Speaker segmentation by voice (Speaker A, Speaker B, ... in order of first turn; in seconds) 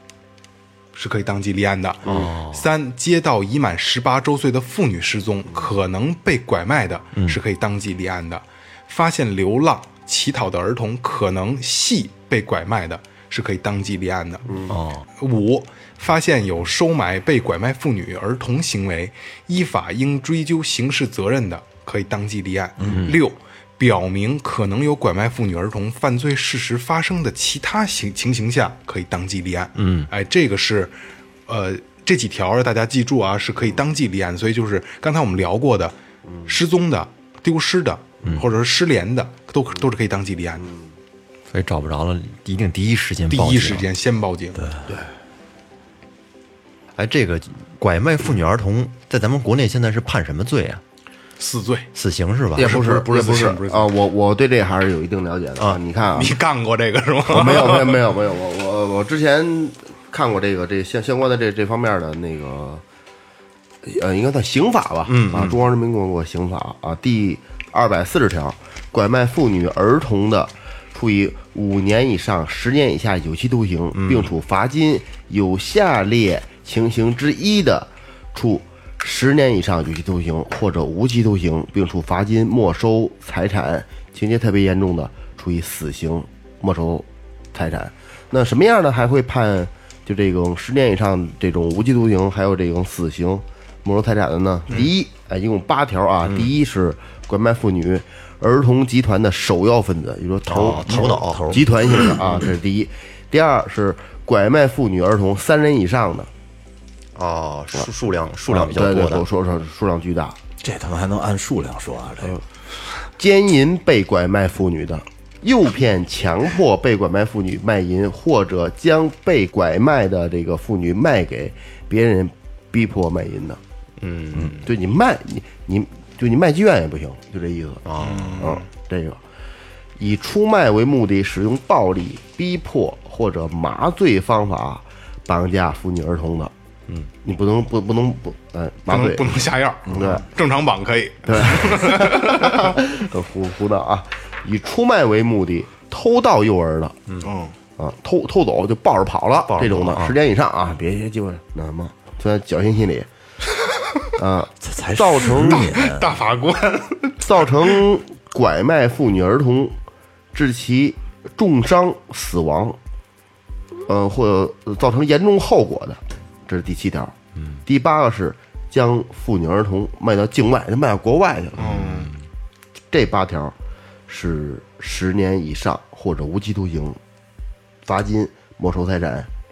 Speaker A: 0.9-14.5, 15.2-30.9, 31.5-35.9, 36.5-40.7, 43.3-44.6, 51.4-51.9, 52.6-53.9, 56.1-58.0, 128.0-128.7, 138.9-142.8, 147.2-147.5, 155.4-157.8, 171.6-172.1
Speaker B: 2.0-2.3, 14.4-14.8, 52.5-56.3, 57.3-62.8, 63.8-106.3, 108.5-110.4, 113.2-123.6, 124.6-129.2, 130.0-136.5, 137.2-140.2, 141.2-147.0, 147.8-153.1, 154.2-155.7, 157.2-159.8, 160.3-162.8, 163.8-167.1, 167.6-171.9, 172.9-173.5, 174.1-177.0, 177.8-179.3
Speaker C: 2.0-2.7, 14.7-15.1, 22.9-23.2, 29.8-30.1, 41.5-43.9, 47.0-50.8, 51.9-52.8, 65.0-65.6, 73.9-74.3, 96.2-96.5, 100.5-101.6, 107.2-109.2, 124.0-124.7, 127.8-128.4, 149.5-150.2, 171.7-172.0
Speaker D: 44.6-45.0, 100.5-102.4, 110.6-112.4, 139.9-140.2, 154.6-156.2